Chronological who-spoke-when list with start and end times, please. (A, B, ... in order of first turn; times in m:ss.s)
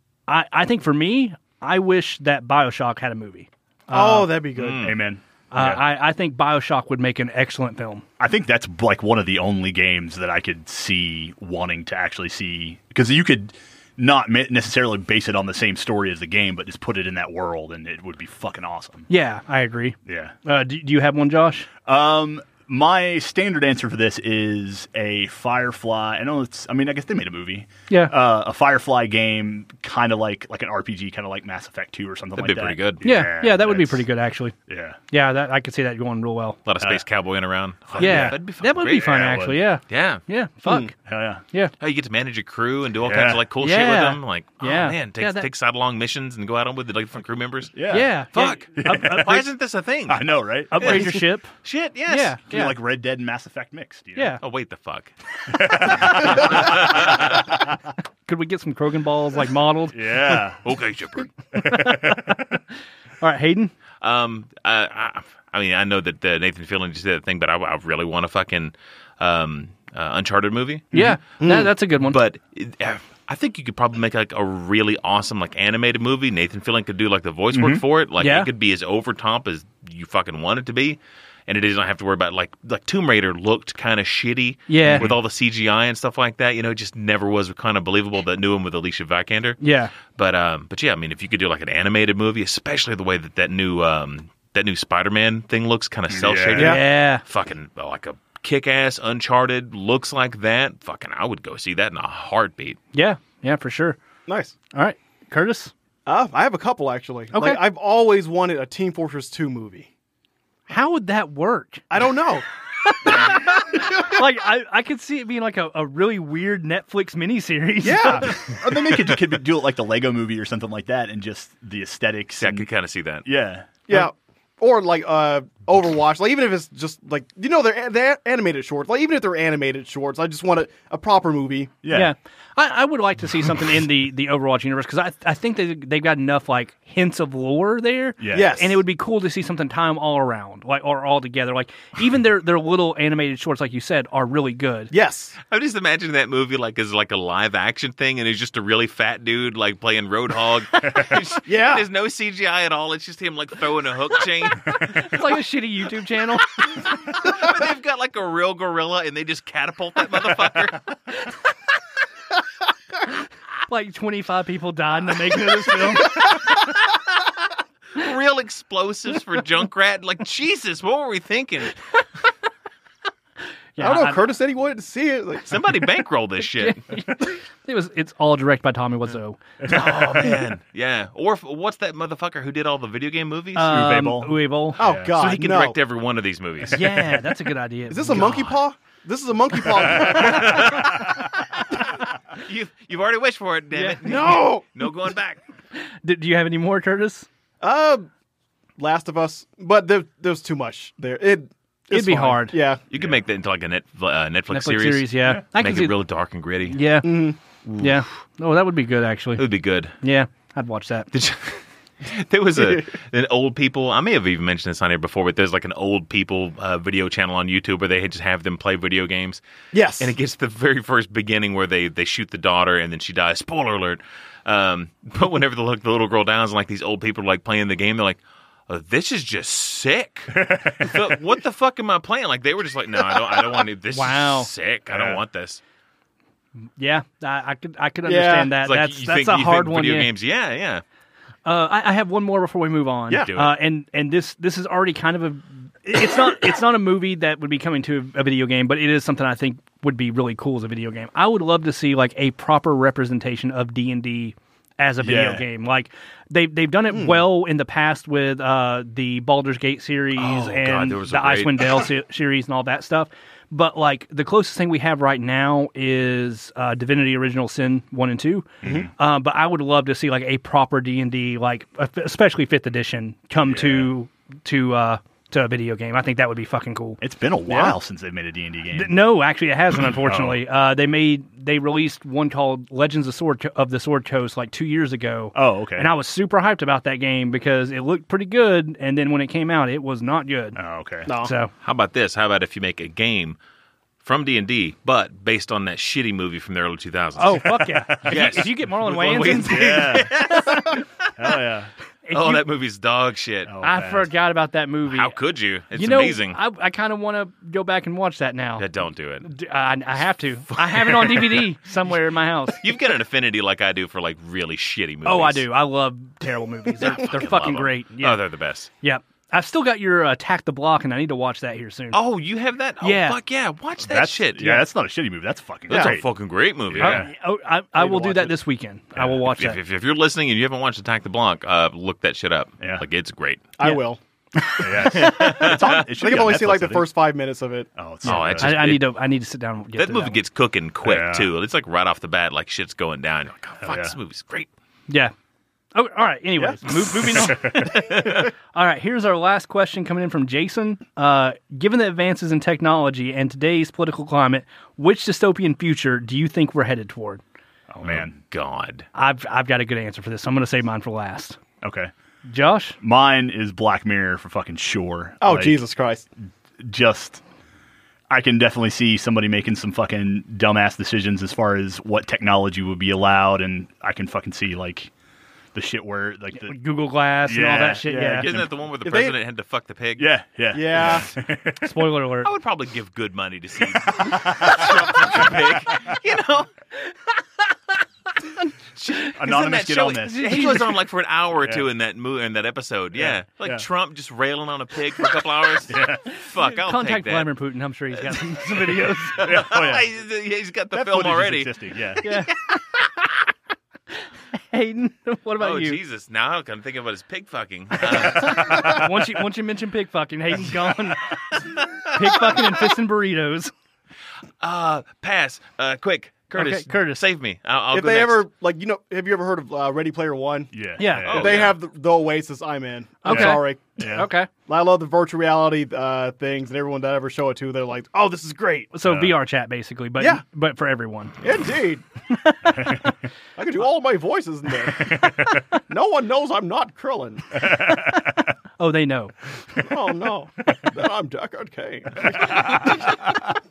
0:00.3-0:04.3 A
0:03.9-0:04.9 B
0:04.6-0:05.0 C
0:04.8-0:05.8 D
0:05.5-0:08.0 A
0:08.2-0:19.1 D
0:19.1-0:21.7 A
0:20.0-0:20.3 D
0:21.8-0:34.0 D
0:32.4-0:33.0 C
0:33.0-0:34.5 A
0:34.7-0:35.0 D
0:35.1-0:36.6 A
0:36.6-0:39.3 C
0:37.9-0:38.4 D
0:38.0-0:40.9 A
0:39.0-0:39.6 D
0:39.9-0:40.2 C
0:41.0-0:41.4 D
0:41.8-0:47.8 C
0:43.0-0:43.4 D
0:43.6-0:45.5 A
0:47.7-0:48.1 D
0:47.9-0:49.4 A
0:48.3-0:52.4 C
0:48.7-0:49.4 D
0:50.1-0:51.1 D
0:50.7-0:51.5 A
0:52.1-0:52.8 A
0:52.5-0:54.4 D
0:54.2-0:54.4 A
0:54.4-0:55.1 C
0:55.5-0:57.5 D
0:55.7-0:57.6 C
0:58.2-1:00.0 A
0:59.9-1:00.6 D
1:00.6-1:01.4 C
1:01.5-1:02.4 A
1:01.6-1:02.6 D
1:03.2-1:03.7 A
1:04.0-1:10.9 C
1:10.9-1:11.2 D
1:10.9-1:12.2 A
1:11.4-1:11.7 B
1:12.0-1:42.8 C
1:17.5-1:17.8 D
1:18.2-1:18.5 A
1:24.7-1:25.1 A
1:24.8-1:25.2 D
1:29.6-1:29.9 A
1:36.1-1:36.8 D
1:36.6-1:36.8 B
1:36.6-1:37.2 A
1:42.9-1:44.0 A
1:44.3-1:44.5 B
1:44.7-1:45.7 A
1:46.1-1:49.9 B
1:47.3-1:47.6 A
1:50.7-1:51.8 A
1:51.9-1:52.4 B
1:53.0-1:58.6 A
1:57.8-1:58.4 B
1:57.9-2:02.7 D
2:02.4-2:03.2 C
2:03.2-2:03.7 D
2:03.9-2:11.7 B
2:11.8-2:12.1 D
2:11.9-2:24.9 A
2:18.2-2:18.5 D
2:18.3-2:18.8 B
2:24.9-2:25.4 B
2:25.5-2:35.3 C
2:31.4-2:31.8 B
2:34.7-2:36.7 A
2:36.6-2:41.0 C
2:43.7-2:46.3 A
2:47.9-2:51.8 C
2:53.8-2:54.2 A
2:53.8-2:55.5 B
2:55.4-2:56.9 C
2:56.6-3:00.2 A
2:59.7-3:03.8 C
3:03.6-3:04.8 A
3:03.6-3:05.2 D
3:04.8-3:05.8 B
3:05.1-3:06.9 C
3:06.7-3:08.3 A
3:07.9-3:11.2 B
3:08.1-3:08.6 C
3:09.8-3:15.4 C
3:10.5-3:11.2 D
3:13.7-3:14.0 A
3:14.0-3:14.6 B
3:15.7-3:17.3 A
3:17.6-3:18.1 B
3:18.8-3:22.8 B
3:21.9-3:22.6 A
3:22.9-3:26.8 C
3:24.5-3:26.0 A
3:26.7-3:29.4 A
3:27.0-3:27.4 B
3:27.6-3:27.9 C
3:29.4-3:29.9 C
3:30.0-3:31.1 A
3:31.1-3:39.4 C
3:32.6-3:32.8 B
3:39.7-3:40.1 B
3:40.0-3:55.6 C
3:50.3-3:51.1 D
3:53.9-3:54.5 A
3:54.9-3:55.2 D
3:56.8-4:00.1 A
3:58.0-3:58.5 B
3:58.6-4:00.8 C
4:01.4-4:37.0 A
4:03.1-4:03.6 C
4:15.0-4:15.4 D
4:16.9-4:17.2 B
4:20.2-4:21.9 C
4:28.6-4:28.9 D
4:28.6-4:28.9 B
4:33.4-4:33.9 D
4:37.0-4:39.1 D
4:37.5-4:37.7 B
4:38.7-4:51.5 A
4:39.9-4:40.4 D
4:45.3-4:45.9 D
4:50.5-4:51.1 D
4:51.1-4:51.3 B
4:51.6-4:53.4 C
4:54.0-5:01.1 C
4:57.2-4:59.6 A
4:57.9-4:58.3 D
4:59.4-5:00.4 D
5:01.2-5:01.7 D
5:02.0-5:02.4 A
5:02.1-5:03.5 C
5:03.4-5:04.1 D
5:03.6-5:05.2 A
5:04.9-5:06.4 C
5:05.7-5:08.6 A
5:08.6-5:09.3 C
5:09.2-5:12.6 A
5:10.5-5:11.5 C
5:12.5-5:15.5 C
5:15.0-5:18.2 A
5:16.8-5:18.7 C
5:18.8-5:22.0 A
5:21.9-5:24.6 C
5:22.8-5:23.2 A
5:23.8-5:26.0 D
5:25.7-5:27.1 C
5:25.7-5:26.0 B
5:26.7-5:27.1 D
5:26.8-5:29.6 A
5:27.9-5:28.3 B
5:29.3-5:33.4 C
5:32.6-5:32.8 D
5:33.6-5:34.0 B
5:34.6-5:36.9 D
5:34.6-5:35.4 B
5:34.8-5:35.8 C
5:35.9-5:37.7 B
5:37.8-5:38.8 D
5:38.0-5:38.9 C
5:38.0-5:40.2 A
5:39.8-5:44.5 C
5:40.8-5:41.3 D
5:43.6-5:44.0 D
5:45.7-5:57.2 A
5:47.1-5:47.7 D
5:47.7-5:48.3 C
5:57.7-5:58.2 D
5:57.8-5:58.8 C
5:58.9-6:01.4 A
6:01.6-6:01.9 D
6:02.3-6:02.8 A
6:02.8-6:05.6 D
6:05.2-6:06.0 B
6:06.6-6:07.2 D
6:08.1-6:14.9 D
6:15.5-6:16.6 D
6:16.3-6:18.3 A
6:17.2-6:18.5 D
6:18.1-6:20.1 C
6:18.8-6:19.2 B
6:20.0-6:21.8 D
6:20.5-6:21.1 B
6:21.6-6:22.3 A
6:22.2-6:26.5 C
6:23.9-6:26.0 D
6:28.2-6:30.7 A
6:28.8-6:37.3 C
6:29.1-6:30.6 D
6:31.4-6:31.7 D
6:32.9-6:33.6 D
6:35.7-6:36.1 D
6:36.1-6:39.3 A
6:37.9-6:42.1 C
6:39.2-6:39.9 D
6:40.7-6:42.1 D
6:42.0-6:42.6 A
6:44.3-6:45.8 A
6:45.4-6:48.9 C
6:48.0-6:48.9 D
6:48.0-6:53.5 A
6:51.9-6:52.4 C
6:54.4-6:58.2 C
6:56.3-6:57.0 A
6:57.7-7:08.7 B
7:00.5-7:01.4 D
7:00.8-7:01.1 A
7:01.0-7:01.6 C
7:03.0-7:04.3 A
7:03.1-7:04.1 D
7:08.7-7:11.2 A
7:08.8-7:09.2 D
7:11.2-7:11.8 B
7:12.1-7:12.9 A
7:12.6-7:12.8 D
7:13.4-7:17.4 B
7:14.9-7:15.2 D
7:17.4-7:18.1 D
7:17.8-7:19.1 A
7:19.6-7:23.2 B
7:22.2-7:22.8 D